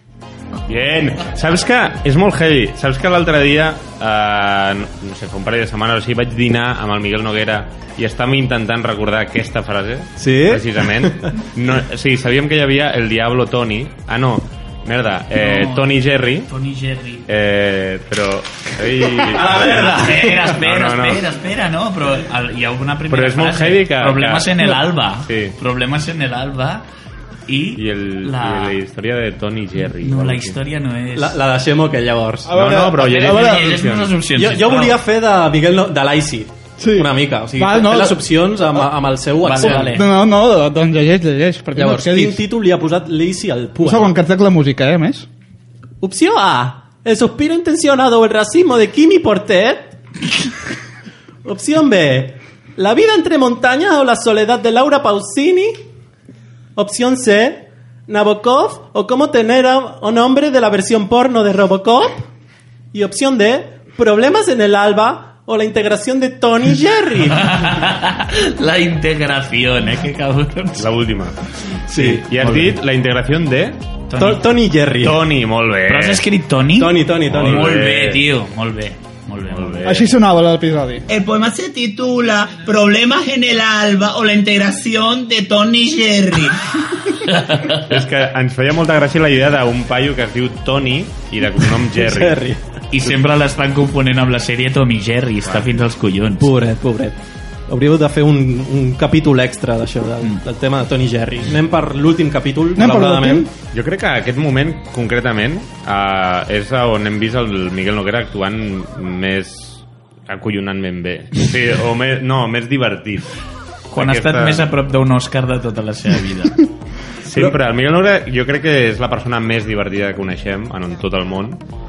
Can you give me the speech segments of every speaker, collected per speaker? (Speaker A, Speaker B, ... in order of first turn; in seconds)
Speaker A: 0.7-16.5, 17.3-21.3, 23.1-25.6, 27.8-30.6, 32.5-34.1, 70.8-71.4, 72.0-73.8, 75.0-76.2, 77.2-78.2, 79.5-80.1, 87.9-92.4, 95.5-95.8, 103.7-113.3, 113.9-114.7, 117.2-121.6
Speaker B: 10.2-11.2, 19.4-20.3, 31.1-32.6, 34.4-40.0, 41.8-44.1, 46.0-49.9, 51.5-55.8, 56.8-62.3, 62.9-67.8, 71.9-72.3, 74.2-75.2, 76.8-77.8, 92.0-92.6, 96.4-103.5
Speaker C: 15.3-17.2, 19.4-26.9, 27.5-28.8, 30.0-31.4, 32.9-35.0, 39.4-40.1, 67.4-70.9, 72.0-72.7, 74.1-74.5, 75.9-79.9, 87.3-87.8, 92.9-96.5, 113.9-116.6
Speaker D: 32.5-33.8, 36.8-38.9, 39.5-42.4, 43.8-45.3, 79.8-81.1, 102.8-103.5
Speaker E: 81.1-86.6